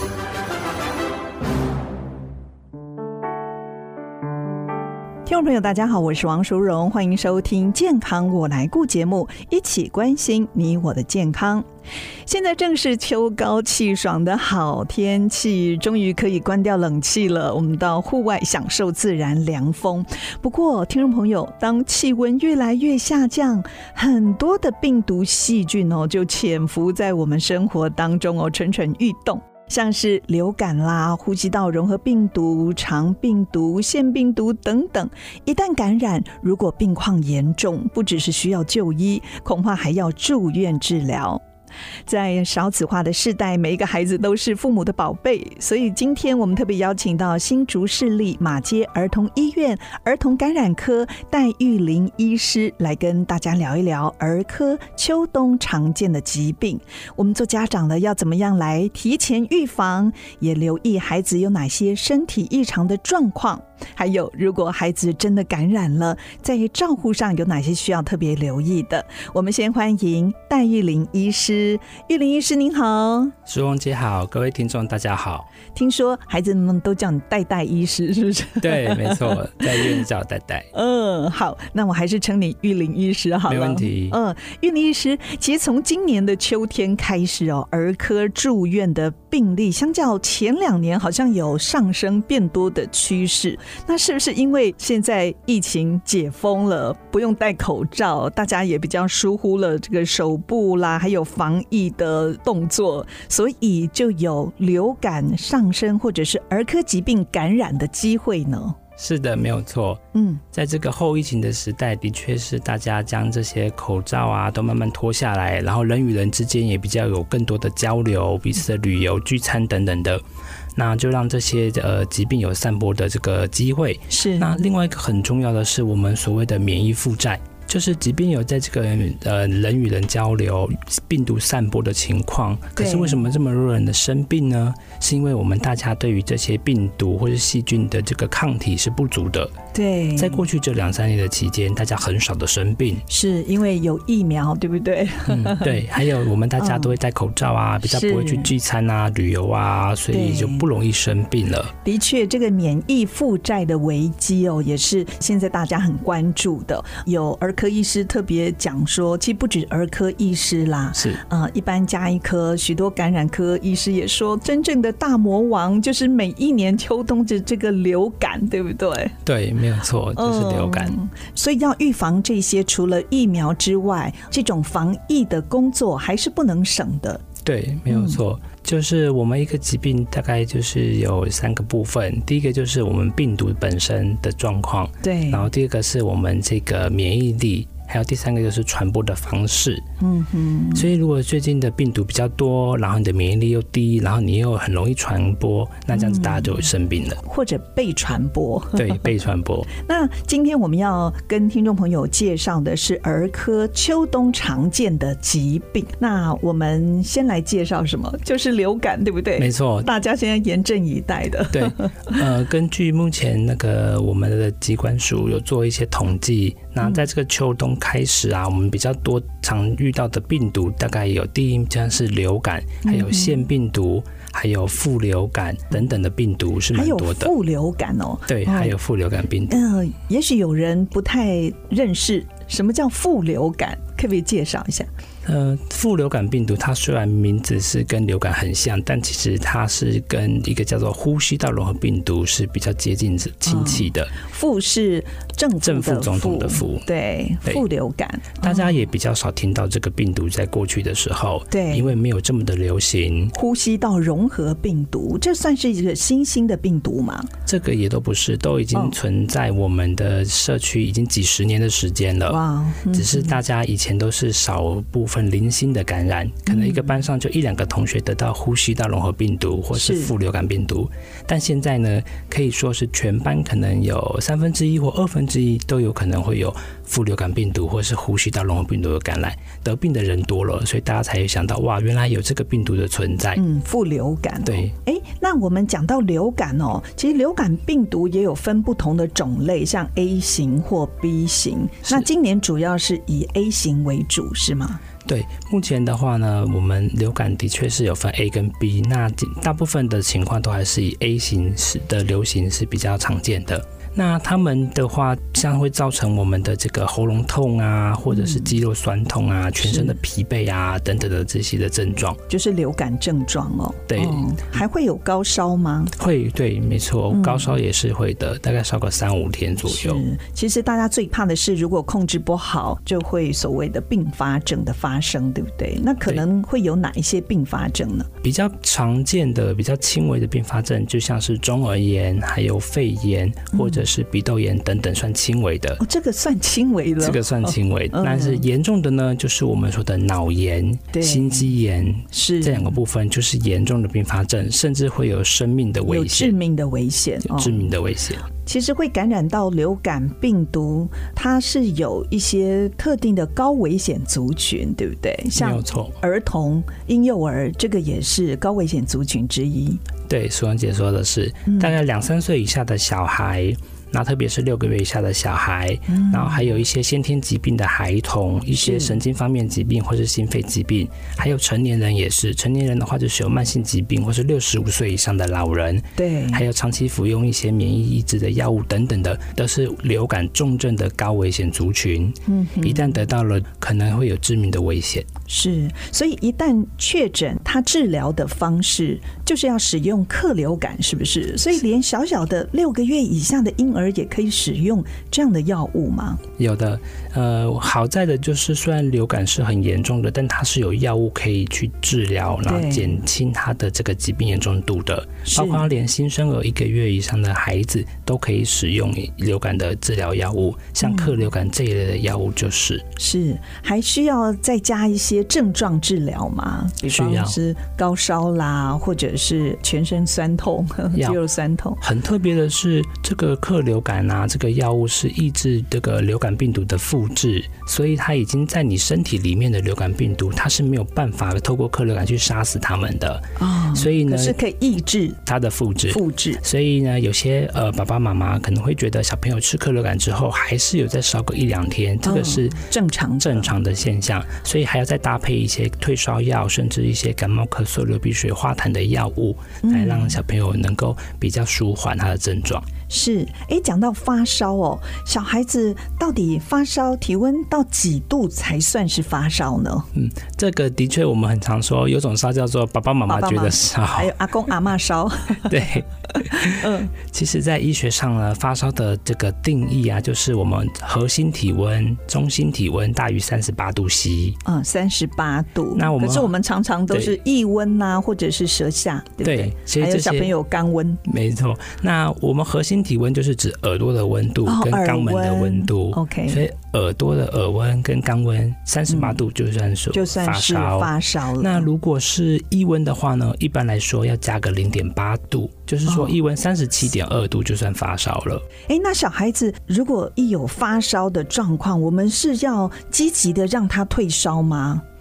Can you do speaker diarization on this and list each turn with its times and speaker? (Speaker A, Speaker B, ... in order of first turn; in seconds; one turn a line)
Speaker A: 5.2-11.6
Speaker A: 12.3-41.4
Speaker A: 42.1-73.3
Speaker B: 73.5-75.5
Speaker A: 75.7-80.0
Speaker B: 78.6-80.7
Speaker A: 80.7-108.8
Speaker B: 83.5-84.2
Speaker B: 109.0-120.2
Speaker A: 110.1-110.4
Speaker B: 120.7-139.5
Speaker A: 124.1-124.6
Speaker A: 132.8-133.2
Speaker A: 139.7-140.4
Speaker B: 140.2-143.0
Speaker A: 143.1-145.8
Speaker B: 145.3-151.7
Speaker A: 146.6-146.9
Speaker A: 147.8-148.5
Speaker A: 150.1-150.6
Speaker A: 151.8-169.2
Speaker B: 160.9-161.2
Speaker B: 169.2-170.9
Speaker A: 170.1-177.2
Speaker B: 177.4-189.8
Speaker A: 177.9-178.2
Speaker A: 185.0-185.5
Speaker A: 190.0-190.9
Speaker B: 190.7-197.2
Speaker A: 195.9-196.6
Speaker A: 197.2-199.1
Speaker B: 198.7-199.7
Speaker A: 199.7-212.2
Speaker B: 209.4-209.9
Speaker B: 211.5-227.3
Speaker A: 222.8-223.4
Speaker A: 226.7-228.8
Speaker B: 228.3-229.6
Speaker A: 229.5-234.9
Speaker B: 235.2-244.1
Speaker A: 243.4-248.7
Speaker B: 245.6-246.8
Speaker B: 248.4-253.3
Speaker A: 251.5-251.9
Speaker A: 253.3-257.3
Speaker B: 257.4-283.4
Speaker A: 262.3-263.4
Speaker A: 266.4-266.9
Speaker A: 269.7-270.1
Speaker A: 283.4-294.8
Speaker B: 284.4-284.7
Speaker B: 295.0-312.2
Speaker A: 308.1-308.6
Speaker A: 309.6-310.0
Speaker A: 312.3-315.9
Speaker B: 313.9-314.3
Speaker B: 316.0-320.0
Speaker A: 317.1-317.5
Speaker A: 319.6-328.1
Speaker B: 328.2-335.8
Speaker A: 333.5-333.8
Speaker A: 335.8-338.4
Speaker B: 337.0-346.3
Speaker A: 340.9-341.5
Speaker A: 342.1-342.8
Speaker A: 345.9-347.7
Speaker B: 347.2-348.2
Speaker A: 348.4-359.8
Speaker B: 355.4-356.0
Speaker B: 360.1-385.1
Speaker A: 361.4-361.7
Speaker A: 365.9-366.5
Speaker A: 368.5-369.0
Speaker A: 376.0-376.4
Speaker A: 382.2-383.0
Speaker A: 385.3-396.2
Speaker B: 396.4-412.9
Speaker A: 402.4-403.0
Speaker A: 405.2-405.7
Speaker A: 410.8-411.2
Speaker A: 413.0-421.8
Speaker B: 416.9-417.4
Speaker B: 420.9-421.2
Speaker B: 421.8-434.4
Speaker A: 433.4-435.2
Speaker B: 435.2-442.6
Speaker A: 435.9-436.4
Speaker A: 442.0-443.5
Speaker B: 443.2-452.6
Speaker A: 449.6-450.2
Speaker A: 452.9-459.9
Speaker B: 459.9-464.1
Speaker A: 463.1-465.6
Speaker B: 465.4-474.4
Speaker A: 466.2-466.9
Speaker A: 474.4-481.0
Speaker B: 475.7-476.3
Speaker B: 476.9-477.2
Speaker B: 479.2-480.3
Speaker B: 481.0-498.4
Speaker A: 484.4-486.4
Speaker A: 488.9-489.2
Speaker A: 489.9-491.7
Speaker A: 495.9-496.1
Speaker A: 498.7-504.8